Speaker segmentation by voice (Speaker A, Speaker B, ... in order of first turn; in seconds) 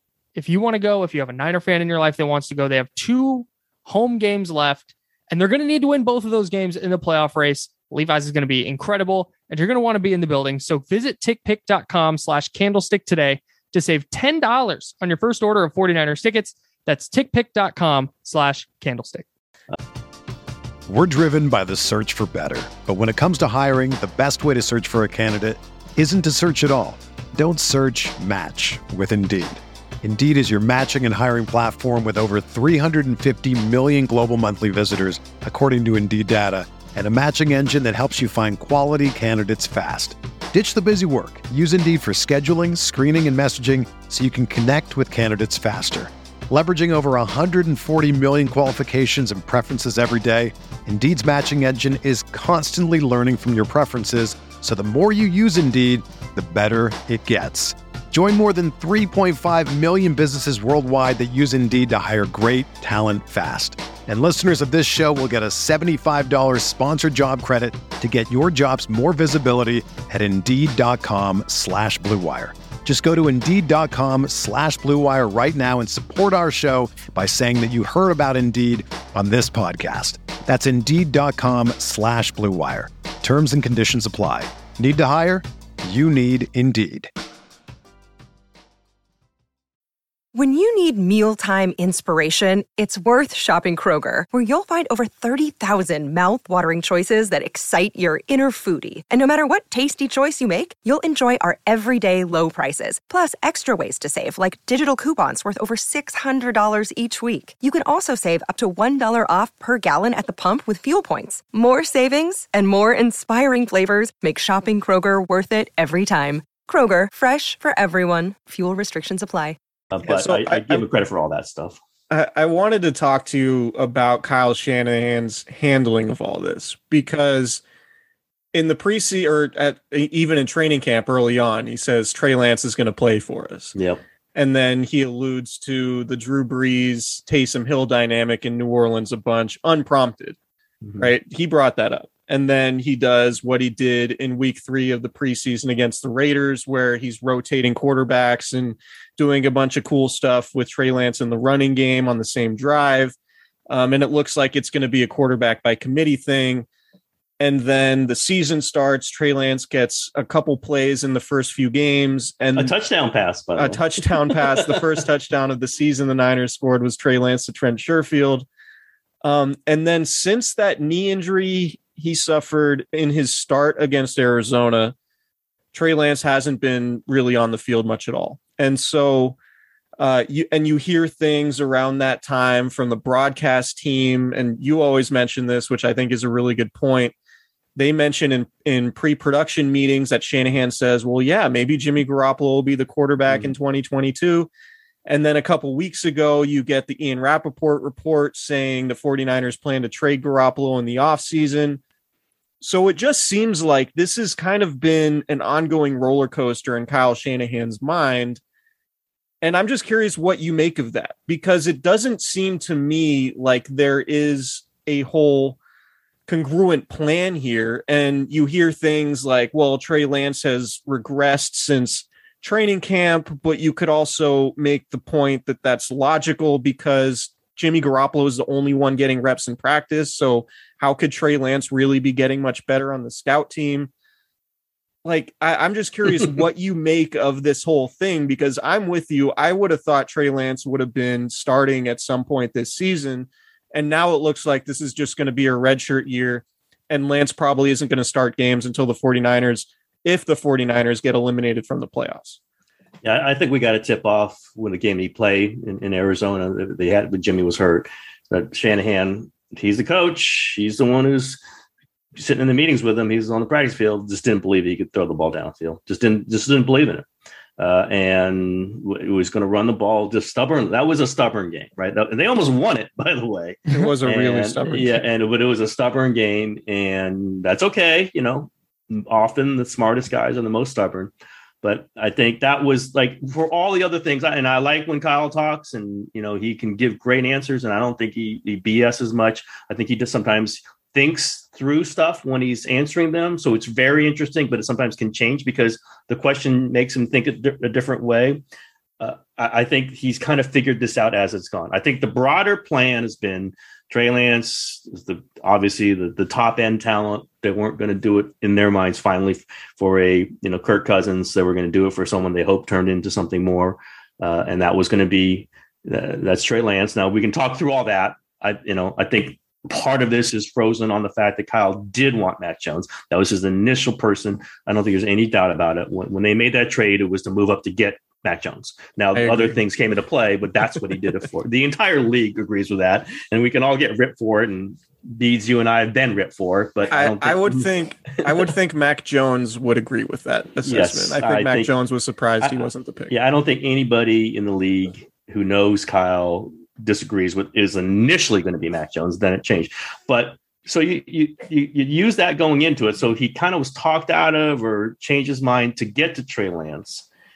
Speaker A: 0.3-19.2
Speaker B: 20.9-87.1
Speaker C: 90.3-119.6
Speaker D: 119.9-121.8, 133.8-134.0, 140.8-141.1, 162.5-165.0, 253.0-261.4, 262.1-267.1, 267.6-281.1, 281.6-298.4, 299.0-338.5, 340.6-341.7, 342.4-357.1
Speaker E: 120.0-120.8, 122.1-127.6, 128.5-133.7, 134.3-140.4, 141.0-153.1, 153.7-156.7, 157.4-162.7, 163.6-168.4, 169.2-174.9, 175.7-179.4, 180.0-187.1, 187.8-194.5, 195.1-201.8, 202.6-208.4, 209.4-215.6, 216.3-233.9, 235.0-252.4, 273.7-275.0, 329.1-329.6, 336.9-343.1